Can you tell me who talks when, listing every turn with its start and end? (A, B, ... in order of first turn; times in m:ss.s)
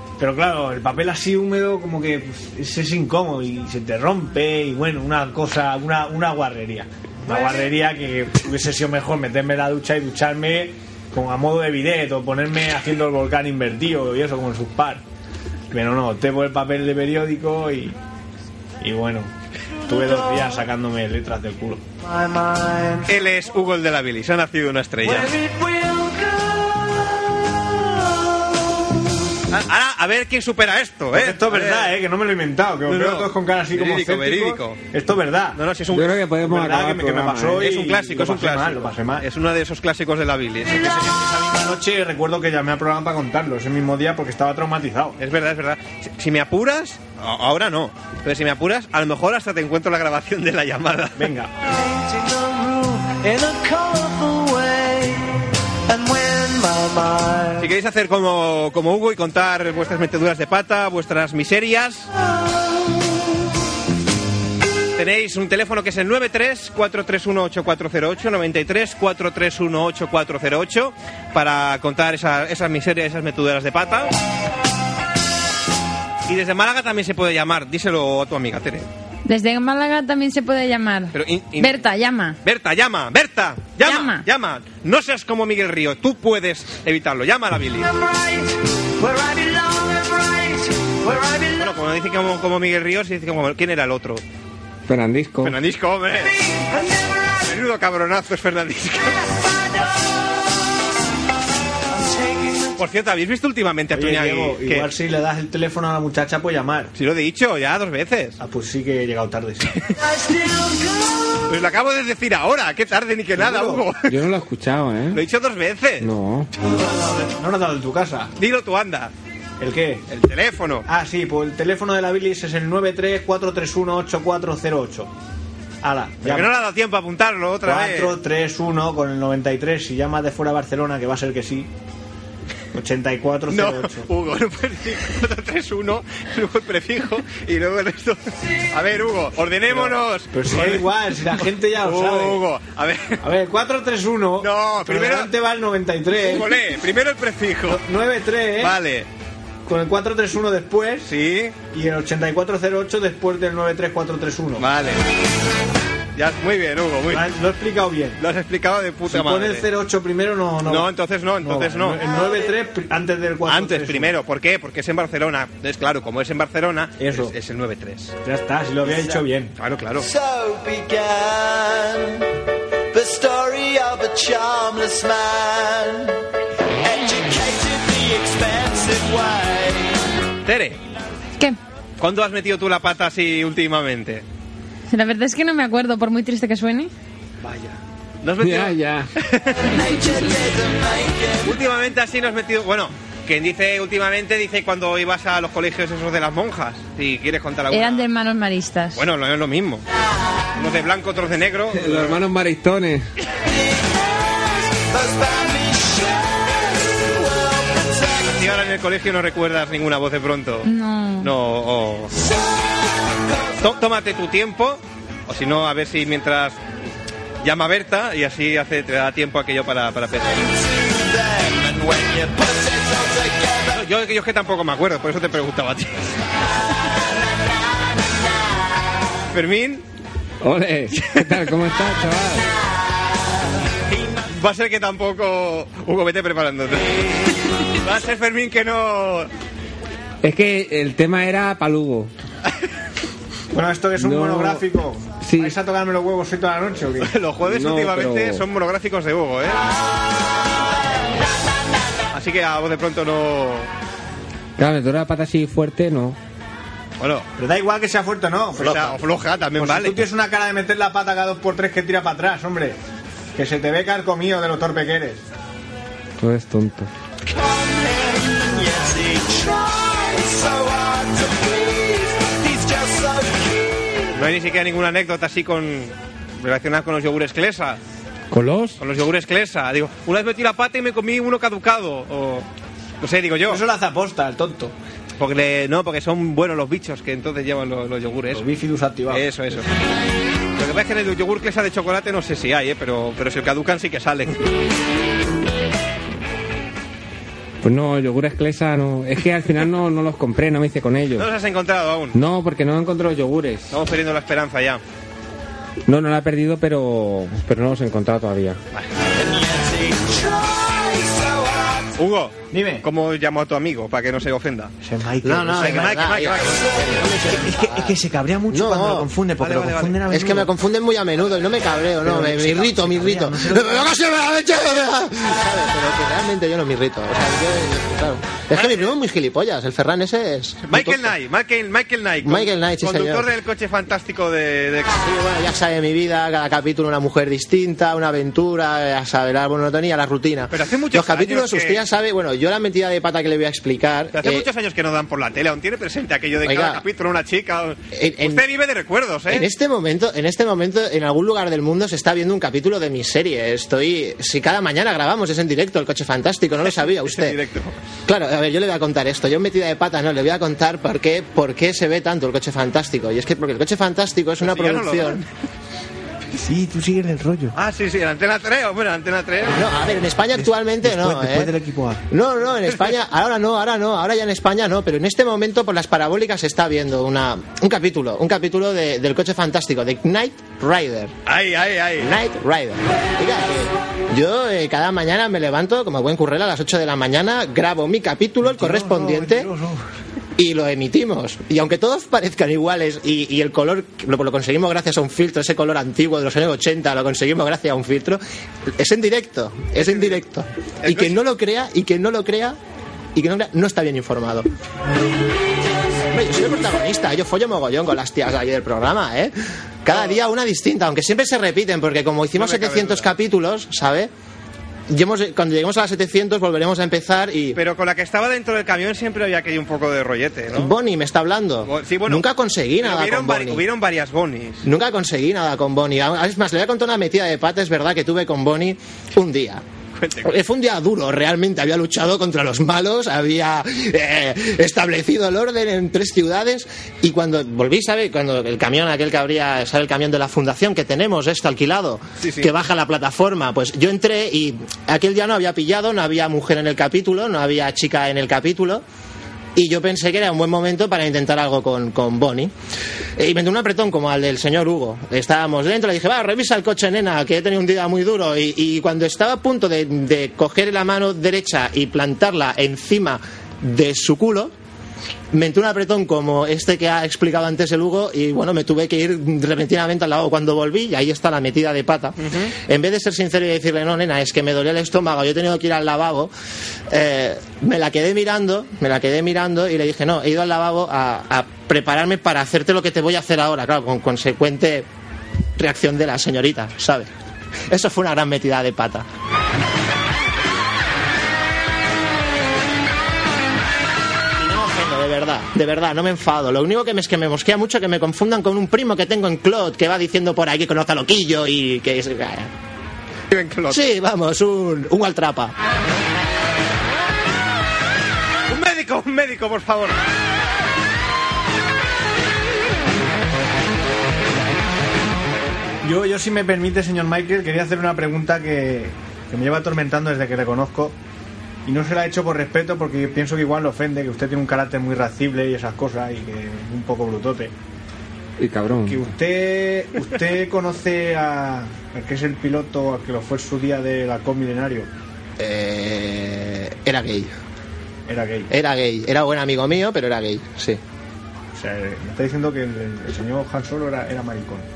0:00.2-0:15.0 A
0:15.7-0:18.0 A
0:18.8-0:19.3 A
0:19.9-0:21.8 A
0:20.1-0:20.4 B
0:22.1-0:23.1 B
0:23.0-0:25.4 C
0:25.1-0:27.1 B
0:29.5-0:32.0 C
0:31.1-0:35.6 A
0:32.9-0:34.8 C
0:35.5-0:36.2 C
0:35.9-0:37.7 D
0:36.4-0:39.2 A
0:37.6-0:40.9 C
0:40.7-0:45.2 A
0:45.2-0:51.3 C
0:51.2-0:51.5 A
0:51.8-0:57.7 B
0:57.6-1:02.1 C
1:05.0-1:14.1 C
1:16.3-1:18.9 C
1:19.3-1:22.4 E
1:21.1-1:21.9 C
1:22.4-1:27.9 C
1:23.8-1:24.2 E
1:28.2-1:28.4 B
1:29.0-1:31.6 B
1:31.6-1:34.2 C
1:34.9-1:35.6 D
1:35.4-1:36.4 C
1:37.4-1:39.3 C
1:42.1-1:42.7 B
1:42.8-1:44.9 C
1:43.9-1:46.9 A
1:47.0-1:48.4 C
1:48.4-1:49.8 A
1:50.2-1:51.2 B
1:51.5-1:54.1 C
1:53.4-1:53.8 A
1:54.1-1:55.2 D
1:55.1-1:56.1 C
1:56.0-1:56.5 D
1:56.7-1:58.3 A
1:58.4-1:59.1 C
1:59.6-2:00.0 A
2:00.1-2:00.9 C
2:00.9-2:05.1 A
2:05.8-2:06.6 A
2:06.2-2:08.2 C
2:07.6-2:11.7 A
2:12.7-2:14.1 A
2:13.5-2:23.2 C
2:19.7-2:22.4 A
2:23.2-2:26.6 A
2:24.4-2:25.3 C
2:26.2-2:27.8 C
2:27.7-2:28.8 A
2:28.6-2:29.1 C
2:29.7-2:31.1 A
2:31.1-2:31.6 C
2:31.7-2:34.6 A
2:34.6-2:35.0 C
2:36.2-2:37.3 C
2:37.1-2:38.2 A
2:38.2-2:39.7 C
2:39.1-2:40.9 A
2:40.7-2:42.0 C
2:41.4-2:44.2 A
2:43.5-2:48.1 C
2:47.0-2:47.3 A
2:48.2-2:49.6 A
2:48.9-2:49.2 B
2:49.6-2:50.1 C
2:50.0-2:52.3 B
2:52.9-2:56.2 B
2:56.8-3:00.0 B
3:00.4-3:00.8 C
3:02.0-3:04.2 C
3:04.9-3:06.9 E
3:08.2-3:09.8 C
3:08.4-3:09.1 D
3:09.8-3:11.4 B
3:11.4-3:18.1 C
3:17.7-3:19.0 E
3:19.0-3:19.8 C
3:20.6-3:22.2 C
3:21.7-3:23.1 D
3:24.8-3:26.5 B
3:27.8-3:28.1 B
3:28.2-3:32.1 C
3:30.6-3:31.3 E
3:33.2-3:33.5 B
3:33.6-3:36.6 C
3:37.4-3:40.5 C
3:40.5-3:43.8 B
3:43.7-3:46.1 C
3:49.3-3:49.8 C
3:50.4-3:52.5 D
3:51.0-3:51.5 C
3:53.9-3:57.0 C
3:57.6-3:59.3 C
4:00.2-4:02.1 D
4:03.5-4:07.1 A
4:04.0-4:04.6 D
4:05.2-4:05.6 D
4:07.0-4:09.7 C
4:07.4-4:08.4 D
4:12.1-4:13.7 C
4:14.6-4:16.2 D
4:17.0-4:17.3 C
4:17.4-4:19.0 A
4:18.6-4:20.0 C
4:19.6-4:22.8 A
4:23.4-4:25.2 A
4:26.2-4:26.9 D
4:27.3-4:33.6 B
4:34.2-4:37.8 C
4:38.3-4:38.8 D
4:38.8-4:42.5 C
4:43.0-4:43.6 C
4:43.5-4:44.7 A
4:45.2-4:48.4 C
4:48.3-4:49.6 A
4:49.1-4:49.7 C
4:50.6-4:54.4 C
4:57.6-5:01.3 D
5:01.2-5:02.2 C
5:02.1-5:03.8 D
5:03.7-5:04.8 C
5:05.9-5:08.6 D
5:09.1-5:11.9 B
5:12.0-5:14.8 C
5:12.5-5:12.8 A
5:14.8-5:16.1 A
5:15.2-5:19.1 F
5:15.5-5:16.7 C
5:17.4-5:20.5 A
5:19.4-5:20.0 C
5:20.1-5:31.1 F
5:22.0-5:23.9 A
5:28.5-5:28.9 C
5:30.7-5:35.0 C
5:32.2-5:33.3 F
5:35.0-5:44.5 F
5:40.5-5:41.8 C
5:44.1-5:49.5 C
5:46.4-5:46.8 F
5:47.9-5:48.4 F
5:49.3-5:57.4 F
5:56.6-5:57.8 C
5:58.1-6:05.2 F
6:04.4-6:05.3 C
6:06.4-6:07.5 A
6:07.6-6:09.6 C
6:09.5-6:11.6 F
6:10.4-6:12.0 A
6:12.1-6:21.2 F
6:21.3-6:22.1 C
6:22.0-6:29.5 F
6:28.4-6:29.8 A
6:30.4-6:38.2 F
6:38.7-6:42.6 F
6:39.8-6:40.2 C
6:40.8-6:41.2 C
6:43.2-6:44.5 F
6:46.1-6:54.1 F
6:49.9-6:50.2 C
6:52.4-6:53.1 C
6:54.9-6:57.6 F
6:57.6-7:00.7 C
7:00.5-7:03.6 F
7:01.6-7:02.3 C
7:02.8-7:04.6 C
7:04.6-7:09.6 F
7:10.0-7:10.4 C
7:10.2-7:28.8 F
7:22.2-7:22.5 C
7:29.6-7:32.5 F
7:33.2-7:44.5 F
7:45.3-7:56.3 F
7:52.2-7:52.5 C
7:56.9-8:04.9 F
8:05.6-8:07.1 F
8:07.7-8:09.1 F
8:14.4-8:22.5 F
8:23.3-8:23.8 C
8:23.7-8:25.6 F
8:28.5-8:30.0 C
8:35.8-8:41.0 A
8:41.6-8:47.5 A
8:48.4-8:49.0 D
8:48.9-8:54.9 A
8:55.4-8:57.3 F
8:58.1-8:58.5 A
8:58.5-9:00.8 F
9:01.6-9:04.7 A